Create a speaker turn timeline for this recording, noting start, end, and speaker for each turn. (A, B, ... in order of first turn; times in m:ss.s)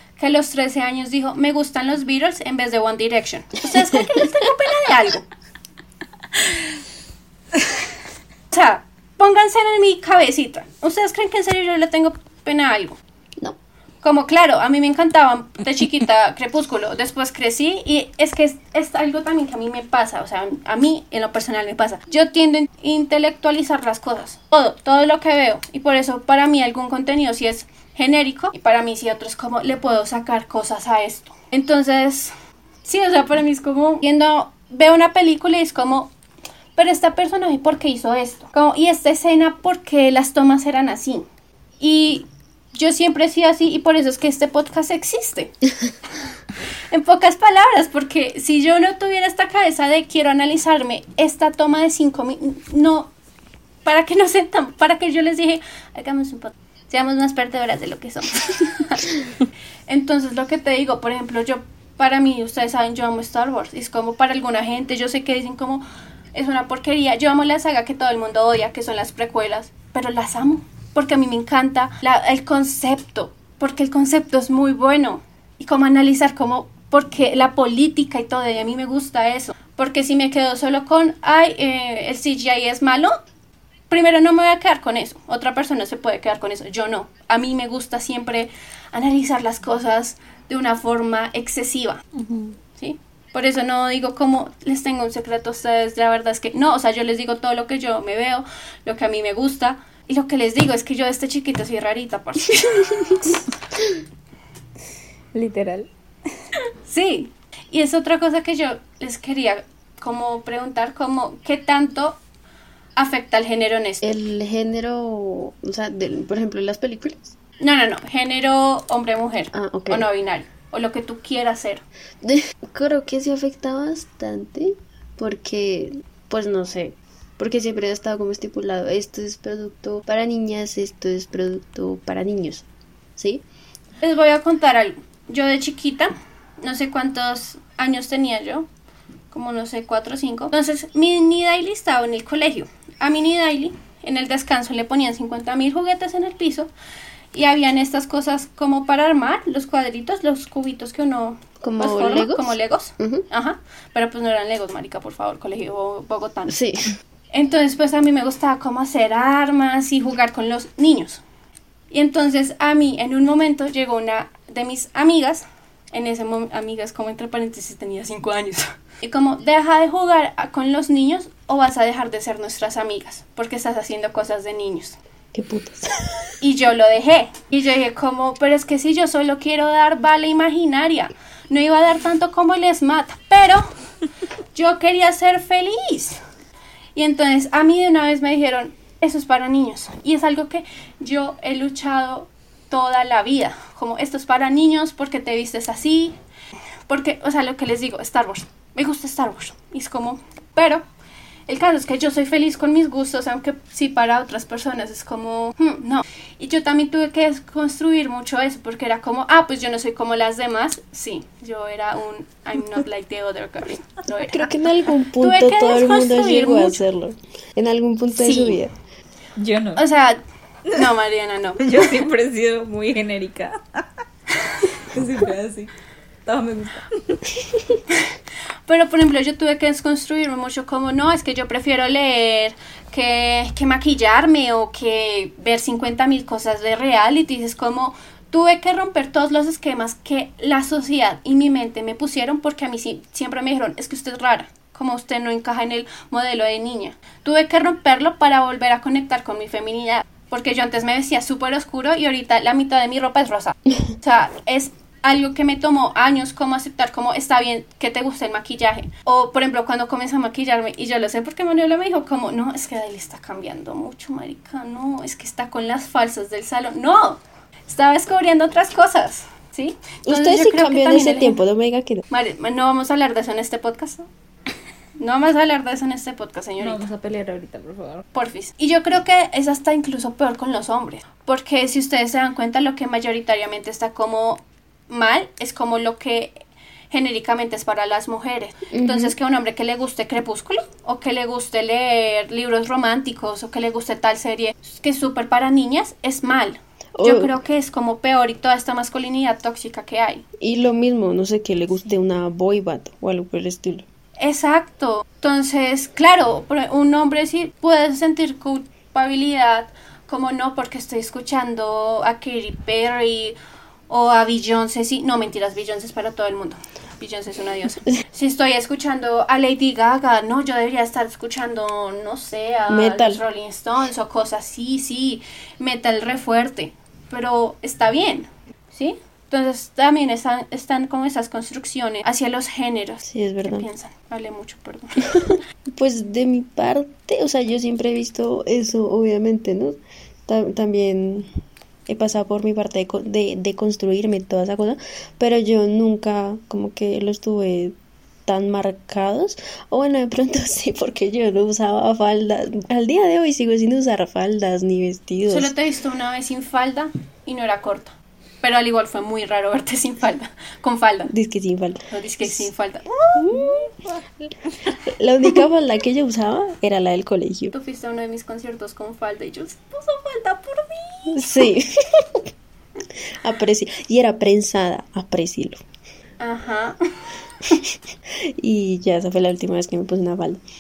0:00.2-0:05.3 A
0:08.5-0:13.0 A
0:14.0-0:32.3 A
0:32.8-0:36.1 A
0:36.8-0:41.3 A
0:41.8-0:45.5 A
0:46.9-0:53.1 A
0:53.8-0:59.0 A
0:59.9-1:23.1 A
1:23.9-1:32.0 A
1:32.2-1:32.5 B
1:32.8-1:43.4 A
1:45.3-1:45.9 C
1:46.9-1:52.2 A
1:53.0-1:54.1 A
1:54.0-1:57.4 B
1:57.6-2:01.8 A
1:59.5-2:00.1 B
2:02.2-2:12.7 B
2:13.2-2:13.4 B
2:14.0-2:18.7 A
2:19.3-2:26.7 A
2:27.3-2:36.6 A
2:31.6-2:33.2 B
2:36.5-2:37.0 B
2:37.3-2:41.2 A
2:41.9-2:55.0 A
2:55.3-2:56.3 B
2:56.4-3:03.6 A
3:04.5-3:06.2 A
3:07.0-3:16.2 A
3:16.9-3:20.8 A
3:21.5-3:34.5 A
3:34.3-3:38.7 B
3:35.2-3:36.8 A
3:38.2-3:38.6 A
3:39.4-3:39.8 C
3:39.8-3:40.2 A
3:40.7-3:41.7 A
3:41.6-3:43.8 C
3:44.8-3:45.7 C
3:46.3-3:47.2 C
3:48.7-4:31.4 A
4:30.1-4:32.0 B
4:32.1-4:34.1 A
4:35.0-4:36.8 A
4:36.6-4:38.0 C
4:38.1-4:46.4 A
4:46.9-5:00.2 A
4:48.7-4:49.2 B
4:57.0-4:57.3 B
5:00.4-5:03.9 B
5:04.2-5:13.4 A
5:13.9-5:35.4 A
5:22.7-5:23.2 B
5:33.0-5:33.7 B
5:35.2-5:41.3 B
5:41.9-5:47.8 B
5:48.3-5:55.5 B
5:55.3-6:01.1 A
6:01.1-6:02.5 B
6:01.9-6:03.7 A
6:03.2-6:03.7 B
6:04.9-6:07.5 B
6:07.5-6:11.5 A
6:11.1-6:12.2 B
6:13.2-6:15.6 B
6:16.2-6:16.8 A
6:18.2-6:20.4 B